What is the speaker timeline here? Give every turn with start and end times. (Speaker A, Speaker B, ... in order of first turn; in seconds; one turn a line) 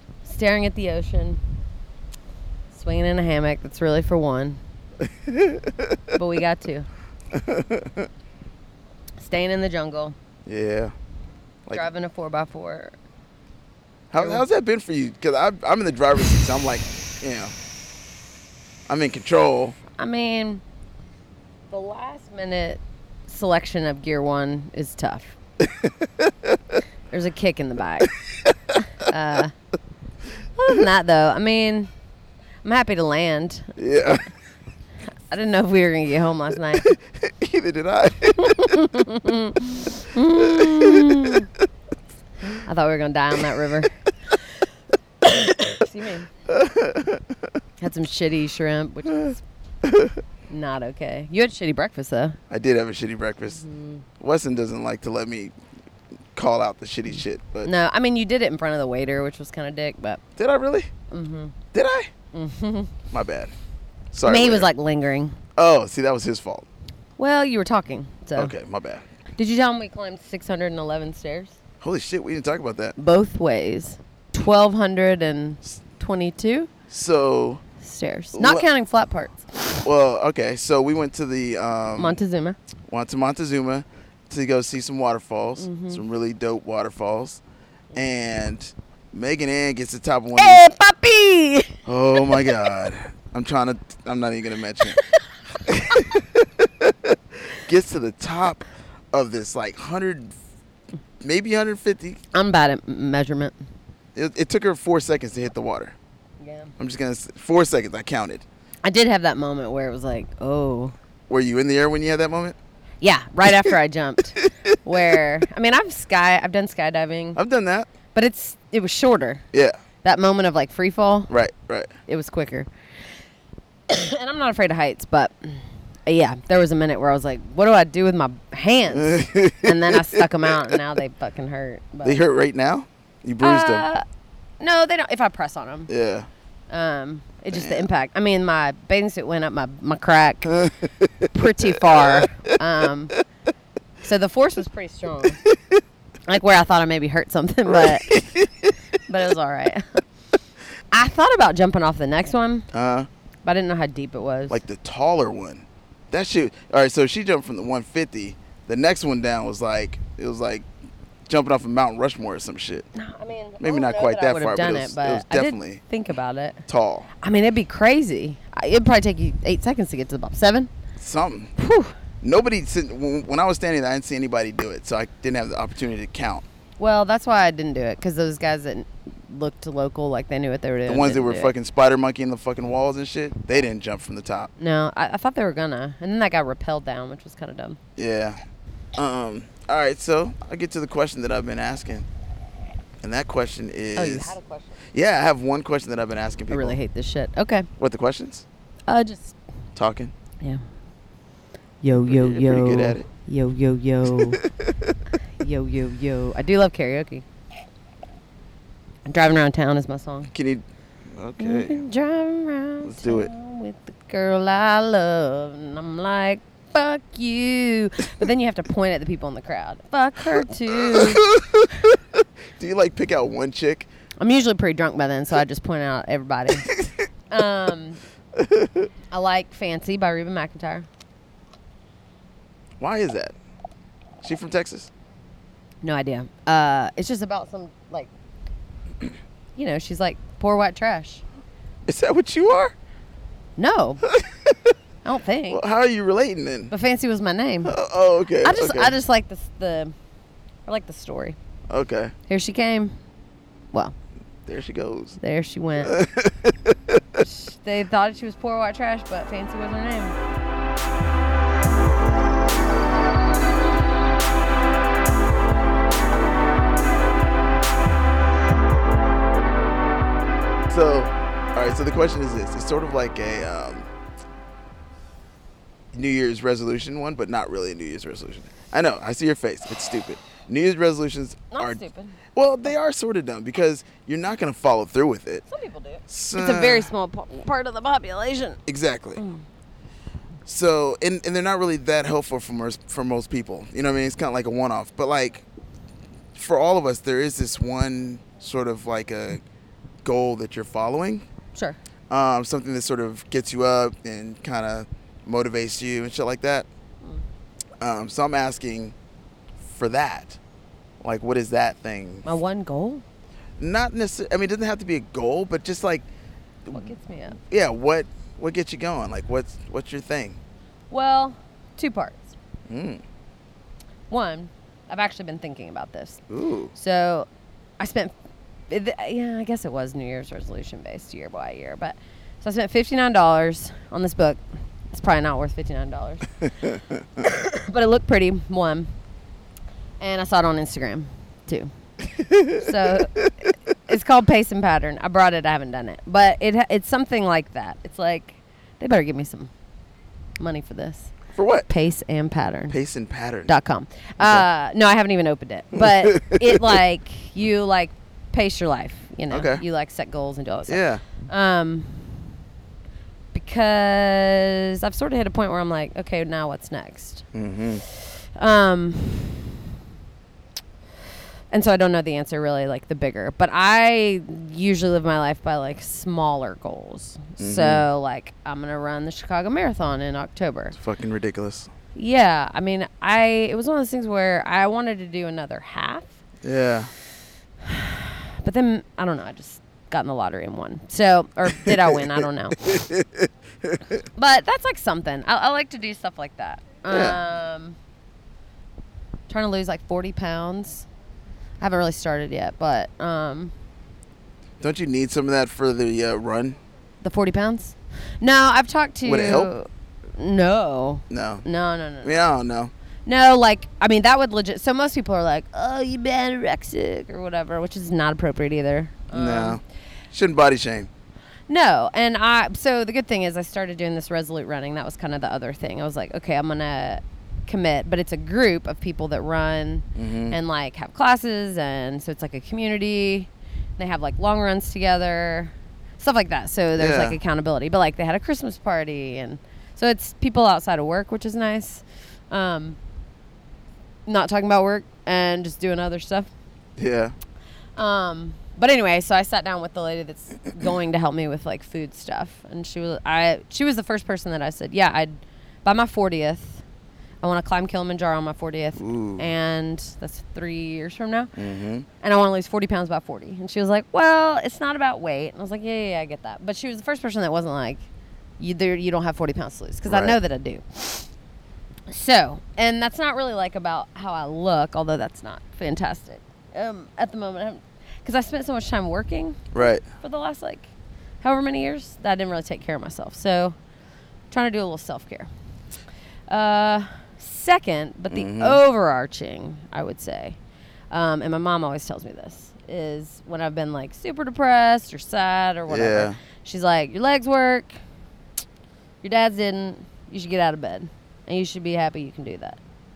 Speaker A: 0.2-1.4
Speaker A: 2.7-4.6
Speaker B: 5.0-6.0
Speaker A: 6.1-6.9
Speaker B: 7.3-8.1
Speaker A: 9.2-10.1
Speaker B: 10.4-10.9
Speaker A: 11.7-12.9
Speaker B: 14.1-17.5
Speaker A: 14.2-14.4
Speaker B: 18.9-19.8
Speaker A: 20.0-20.6
Speaker A: 21.7-25.4
Speaker B: 25.6-26.6
Speaker A: 27.1-28.1
Speaker A: 28.9-29.5
Speaker A: 30.6-31.9
Speaker A: 32.6-33.7
Speaker B: 33.8-34.3
Speaker A: 35.3-36.9
Speaker B: 36.8-38.8
Speaker A: 38.4-41.5
Speaker B: 40.3-41.3
Speaker A: 42.5-43.9
Speaker A: 45.2-46.3
Speaker B: 46.5-47.4
Speaker A: 47.8-49.4
Speaker B: 49.8-50.2
Speaker A: 50.5-52.4
Speaker B: 52.5-53.6
Speaker A: 53.5-54.0
Speaker B: 54.2-55.5
Speaker B: 56.3-57.7
Speaker A: 57.6-60.2
Speaker B: 60.4-60.9
Speaker A: 61.1-61.5
Speaker B: 61.7-62.1
Speaker A: 62.3-62.9
Speaker B: 63.1-63.5
Speaker B: 64.1-64.7
Speaker A: 64.2-65.4
Speaker B: 65.5-66.7
Speaker A: 67.2-68.5
Speaker B: 68.4-69.1
Speaker A: 69.4-71.6
Speaker B: 71.8-73.0
Speaker A: 73.0-76.7
Speaker B: 76.9-77.6
Speaker A: 77.8-79.8
Speaker B: 78.3-78.7
Speaker B: 79.8-82.2
Speaker A: 82.0-82.6
Speaker B: 82.9-87.4
Speaker A: 85.6-86.0
Speaker B: 87.9-90.6
Speaker A: 90.4-92.4
Speaker B: 91.9-95.0
Speaker B: 95.6-100.3
Speaker B: 101.2-102.2
Speaker A: 102.3-103.6
Speaker B: 104.1-106.0
Speaker A: 106.4-106.7
Speaker B: 106.8-108.4
Speaker A: 108.8-110.9
Speaker B: 111.3-112.6
Speaker A: 113.0-117.4
Speaker B: 117.4-117.9
Speaker A: 118.1-119.4
Speaker A: 120.0-121.3
Speaker B: 121.3-121.9
Speaker A: 122.1-122.7
Speaker A: 123.9-132.2
Speaker B: 128.9-130.8
Speaker B: 132.0-133.8
Speaker A: 133.4-134.0
Speaker A: 134.6-135.9
Speaker B: 135.9-136.3
Speaker A: 136.7-140.7
Speaker B: 137.5-137.9
Speaker B: 140.5-141.3
Speaker A: 141.3-143.2
Speaker B: 141.9-142.3
Speaker A: 144.0-145.4
Speaker B: 145.4-145.8
Speaker A: 146.3-148.2
Speaker B: 147.7-148.7
Speaker A: 149.1-150.0
Speaker A: 150.9-152.7
Speaker B: 152.7-153.1
Speaker A: 153.4-154.6
Speaker B: 154.5-160.7
Speaker B: 161.3-162.9
Speaker A: 162.9-166.6
Speaker B: 163.6-165.8
Speaker B: 166.7-167.1
Speaker A: 167.2-170.7
Speaker B: 171.0-171.5
Speaker A: 171.6-171.9
Speaker B: 172.2-176.4
Speaker A: 176.8-181.5
Speaker B: 180.9-184.5
Speaker A: 184.6-187.8
Speaker B: 187.9-188.4
Speaker B: 188.9-192.1
Speaker B: 193.0-194.4
Speaker A: 193.9-194.8
Speaker B: 194.9-196.8
Speaker A: 196.5-197.7
Speaker B: 197.8-198.4
Speaker A: 198.9-199.4
Speaker B: 199.8-200.1
Speaker A: 201.8-204.4
Speaker B: 202.0-203.1
Speaker B: 204.1-205.0
Speaker A: 205.4-207.2
Speaker A: 209.1-210.3
Speaker B: 210.3-211.8
Speaker A: 211.4-221.2
Speaker B: 212.8-213.3
Speaker B: 220.7-223.9
Speaker A: 224.2-226.7
Speaker A: 227.3-228.0
Speaker B: 228.4-228.9
Speaker A: 229.1-230.9
Speaker B: 232.8-233.4
Speaker B: 234.2-234.9
Speaker A: 235.8-238.1
Speaker A: 239.6-241.2
Speaker B: 241.9-242.8
Speaker A: 243.6-244.0
Speaker B: 244.1-244.7
Speaker A: 245.0-245.6
Speaker B: 245.5-246.7
Speaker A: 246.7-247.8
Speaker B: 247.6-248.9
Speaker A: 248.4-249.9
Speaker A: 250.7-251.4
Speaker B: 251.7-252.1
Speaker A: 252.3-253.0
Speaker B: 254.4-255.2
Speaker A: 255.2-255.9
Speaker B: 255.8-257.2
Speaker A: 257.2-260.2
Speaker B: 270.7-273.9
Speaker B: 275.9-281.8
Speaker A: 281.5-282.2
Speaker B: 282.3-285.4
Speaker A: 285.5-288.6
Speaker B: 286.1-286.9
Speaker B: 288.7-289.2
Speaker A: 289.2-289.4
Speaker B: 290.4-295.4
Speaker B: 296.3-299.4
Speaker B: 300.0-301.2
Speaker B: 302.1-306.7
Speaker B: 307.8-308.9
Speaker B: 309.6-310.4
Speaker B: 311.0-312.3
Speaker A: 312.2-313.0
Speaker B: 313.6-316.1
Speaker B: 316.6-320.4
Speaker A: 316.7-317.4
Speaker A: 320.9-322.3
Speaker B: 322.7-323.0
Speaker A: 324.1-326.2
Speaker B: 326.3-326.7
Speaker A: 326.7-327.3
Speaker A: 327.8-328.1
Speaker A: 328.7-336.4
Speaker A: 337.2-338.9
Speaker A: 340.0-341.7
Speaker B: 342.2-342.7
Speaker A: 342.4-349.5
Speaker A: 350.4-351.1
Speaker B: 351.4-351.7
Speaker A: 351.7-352.8
Speaker B: 352.7-353.5
Speaker A: 353.4-362.3
Speaker B: 354.2-354.4
Speaker B: 355.7-356.8
Speaker B: 359.3-359.6
Speaker B: 360.7-361.0
Speaker A: 363.3-367.2
Speaker B: 367.3-367.8
Speaker A: 367.9-369.6
Speaker A: 371.5-380.8
Speaker B: 377.4-377.9
Speaker B: 380.7-381.7
Speaker A: 381.9-386.2
Speaker B: 386.4-386.9
Speaker A: 387.6-392.8
Speaker B: 391.6-393.8
Speaker A: 394.1-397.8
Speaker B: 396.9-397.2
Speaker A: 399.3-400.9
Speaker A: 401.6-403.5
Speaker B: 404.6-406.6
Speaker A: 407.0-412.1
Speaker B: 409.1-409.5
Speaker B: 411.1-411.4
Speaker B: 412.0-412.7
Speaker A: 413.1-419.6
Speaker B: 419.1-420.9
Speaker A: 421.5-442.8
Speaker B: 429.9-430.4
Speaker B: 436.7-437.2
Speaker A: 444.1-446.3
Speaker B: 446.8-447.1
Speaker A: 447.8-456.6
Speaker A: 457.2-461.3
Speaker B: 458.8-459.3
Speaker B: 461.4-461.9
Speaker A: 462.0-467.8
Speaker A: 468.4-471.1
Speaker B: 469.9-470.2
Speaker A: 471.9-480.7
Speaker B: 479.5-479.9
Speaker A: 481.2-483.6
Speaker A: 484.3-485.3
Speaker A: 486.3-490.4
Speaker B: 488.1-488.6
Speaker A: 490.9-497.8
Speaker B: 495.7-496.2
Speaker A: 499.0-502.6